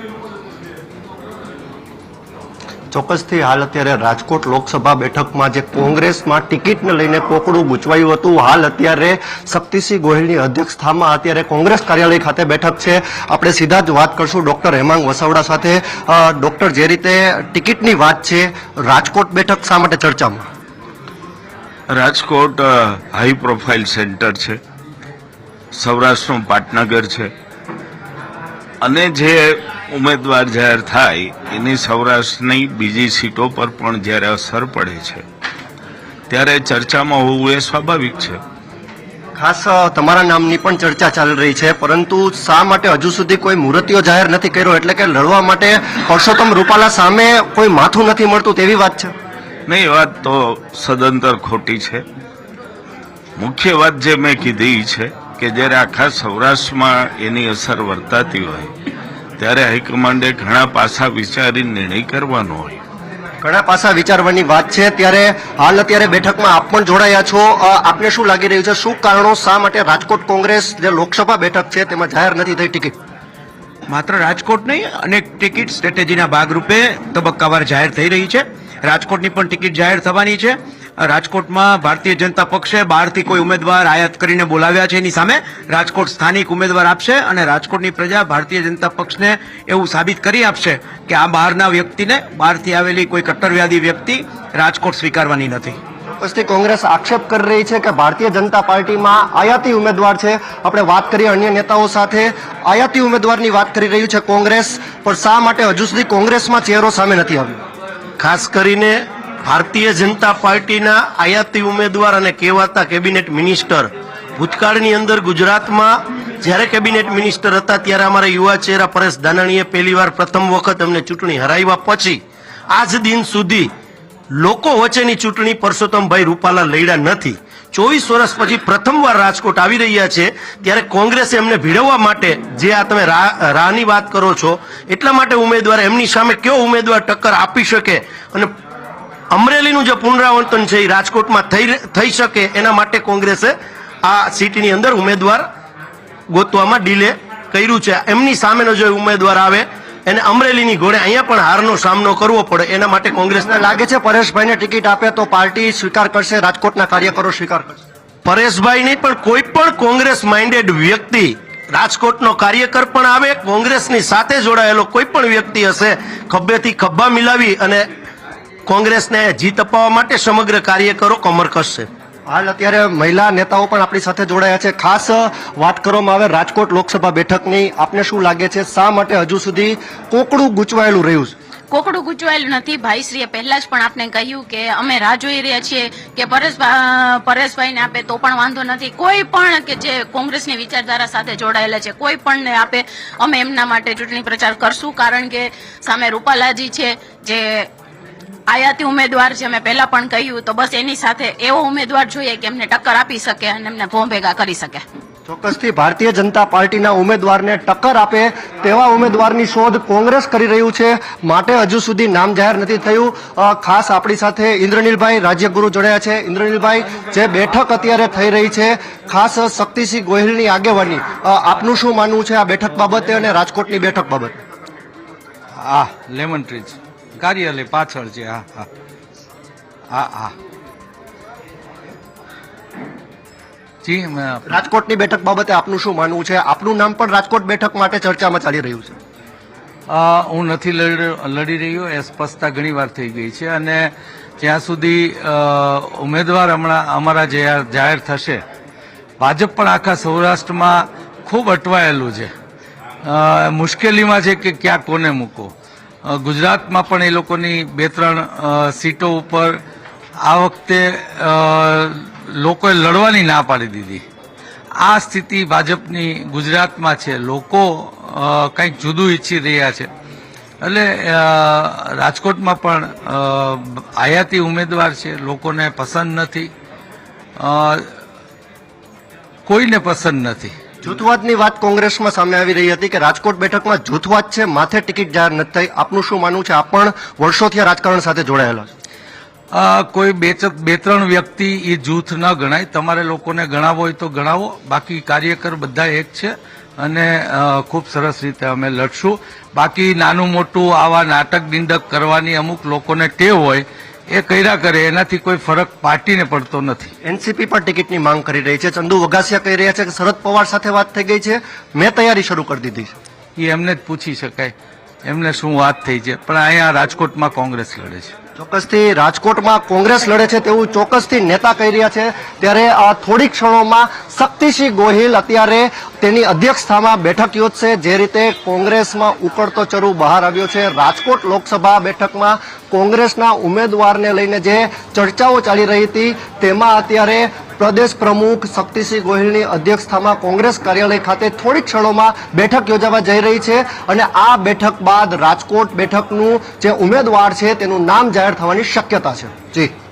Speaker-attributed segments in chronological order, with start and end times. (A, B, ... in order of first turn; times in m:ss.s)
0:02.9-0:20.4 A
0:21.9-0:24.6 B
0:25.7-0:27.3 B
0:28.8-0:35.2 B
0:36.3-0:38.4 B
0:39.4-0:49.1 A
0:49.7-0:52.0 B
0:53.4-0:58.7 B
0:59.4-1:02.8 B
1:03.4-1:12.9 A
1:13.9-1:35.8 C
1:36.2-1:47.6 A
1:48.2-2:03.7 D
2:04.4-2:18.5 D
2:19.3-2:23.5 D
2:24.0-2:25.4 D
2:26.3-2:33.6 D
2:33.4-2:37.7 A
2:38.2-2:47.9 D
2:48.7-2:51.9 D
2:52.3-3:01.3 A
3:01.7-3:17.7 E
3:18.5-3:24.8 E
3:25.3-3:44.4 A
3:45.6-3:48.7 F
3:49.9-3:50.3 F
3:53.8-3:54.4 F
3:54.5-3:58.9 A
3:59.9-4:08.4 F
4:09.2-4:12.3 F
4:13.1-4:15.5 F
4:16.1-4:19.6 F
4:20.3-4:24.0 F
4:24.8-4:29.9 F
4:30.6-4:36.5 F
4:37.4-4:37.9 F
4:39.5-4:40.5 F
4:40.8-4:48.7 A
4:49.5-5:06.9 F
5:07.0-5:12.9 A
5:13.4-5:14.5 F
5:15.0-5:18.1 F
5:18.4-5:49.7 A